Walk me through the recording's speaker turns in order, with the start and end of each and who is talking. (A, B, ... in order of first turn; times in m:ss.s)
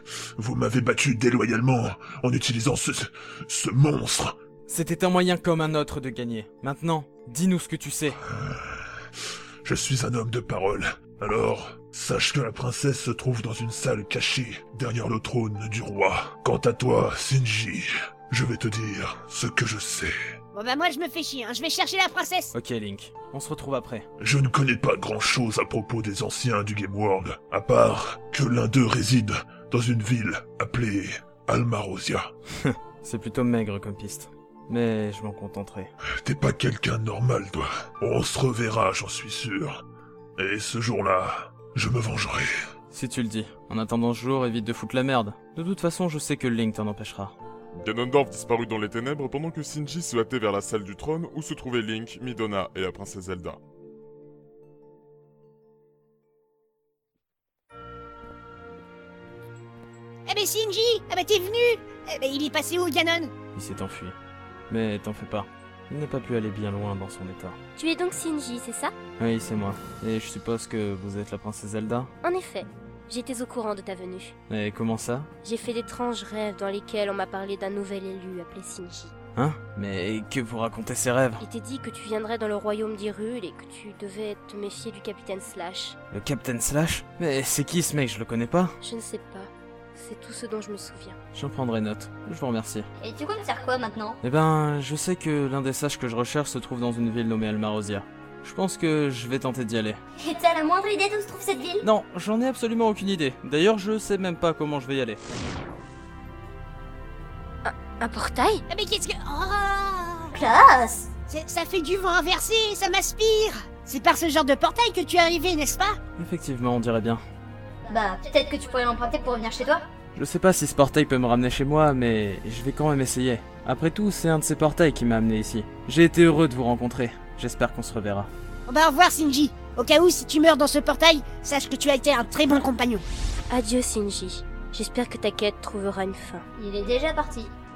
0:00.4-0:04.3 A
0:04.7-0:08.2 B
0:08.3-0:08.8 A
0:09.6-0:20.1 A
0:20.5-0:22.5 C
0:22.5-0:24.1 B
0:24.2-0:32.3 A
0:32.6-0:35.9 B
0:36.2-0:39.8 A
0:40.4-0:42.5 A
0:42.9-0:47.3 B
0:47.7-0:53.6 D
1:00.3-1:03.3 C
1:03.5-1:04.2 B
1:04.7-1:07.6 B
1:07.8-1:08.9 E
1:09.2-1:12.1 B
1:12.2-1:14.3 E
1:14.5-1:15.3 B
1:15.4-1:19.1 E
1:19.4-1:21.4 B
1:21.4-1:26.0 E
1:26.1-1:28.8 B
1:28.8-1:31.2 E
1:31.3-1:32.9 B
1:33.0-1:34.2 F
1:34.2-1:40.0 B
1:40.2-1:41.8 F
1:41.8-1:45.2 B
1:47.6-1:48.6 E
1:48.7-1:50.4 C
1:50.3-1:51.1 F
1:51.3-1:56.0 C
1:56.2-1:57.2 B
1:57.9-1:59.8 F
2:00.1-2:08.3 B
2:08.7-2:13.0 C
2:13.5-2:16.4 E
2:16.6-2:17.5 F